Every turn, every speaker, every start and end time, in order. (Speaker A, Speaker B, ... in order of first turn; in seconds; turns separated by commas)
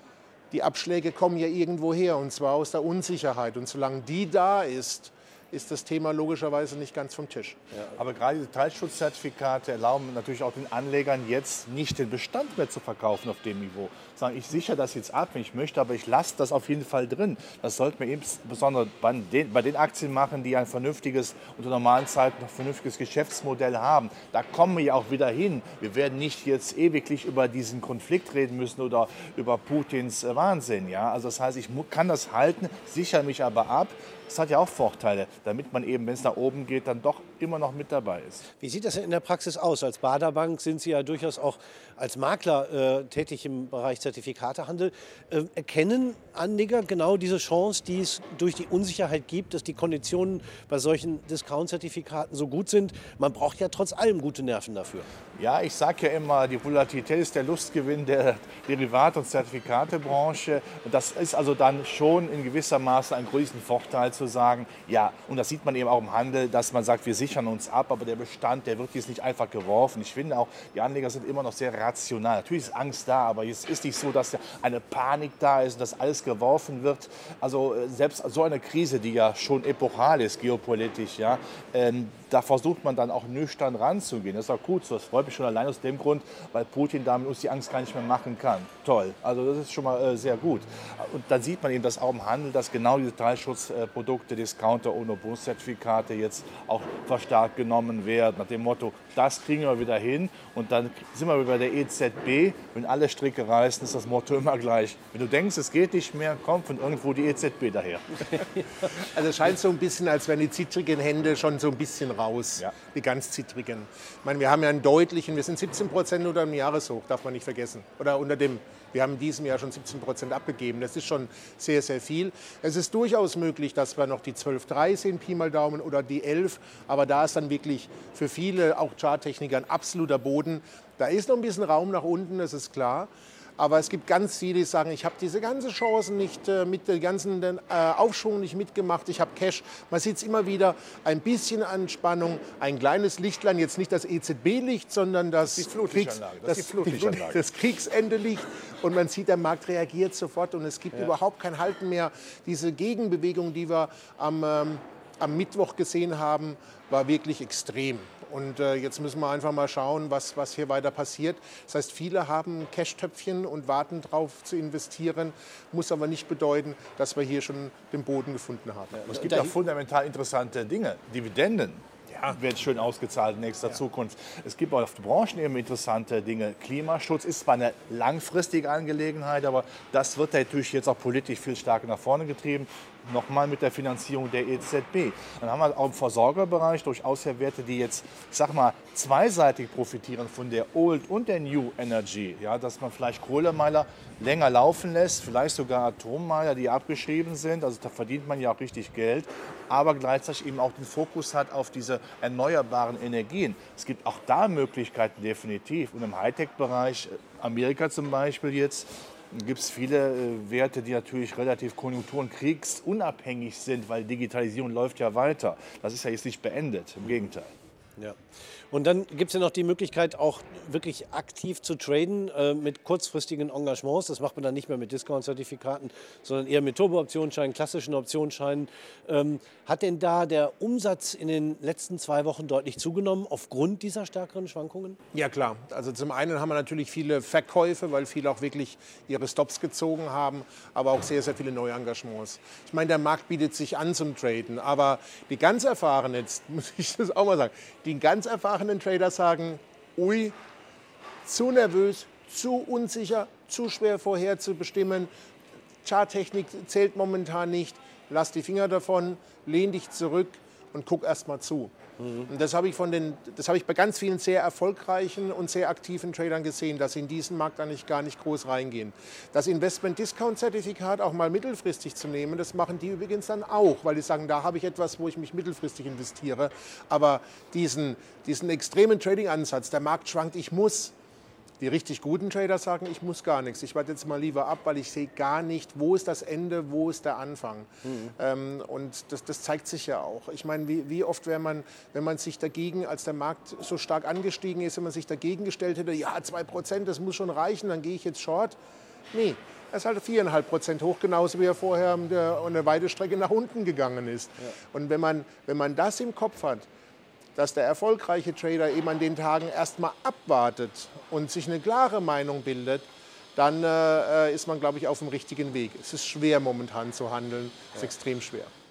Speaker A: 0.5-7.6, Speaker B: 7.9-38.4, Speaker C: 38.6-55.1, Speaker B: 55.4-108.5, Speaker A: 109.0-169.1, Speaker B: 145.5-147.4, Speaker C: 169.1-169.5, Speaker B: 169.1-217.5, Speaker A: 172.1-172.4, Speaker C: 218.7-235.0, Speaker A: 235.1-250.3, Speaker A: 251.2-255.1, Speaker A: 255.8-261.7, Speaker C: 262.0-262.3, Speaker A: 262.3-280.9, Speaker A: 281.6-298.6, Speaker C: 287.8-288.1, Speaker A: 299.1-306.7, Speaker A: 307.3-318.5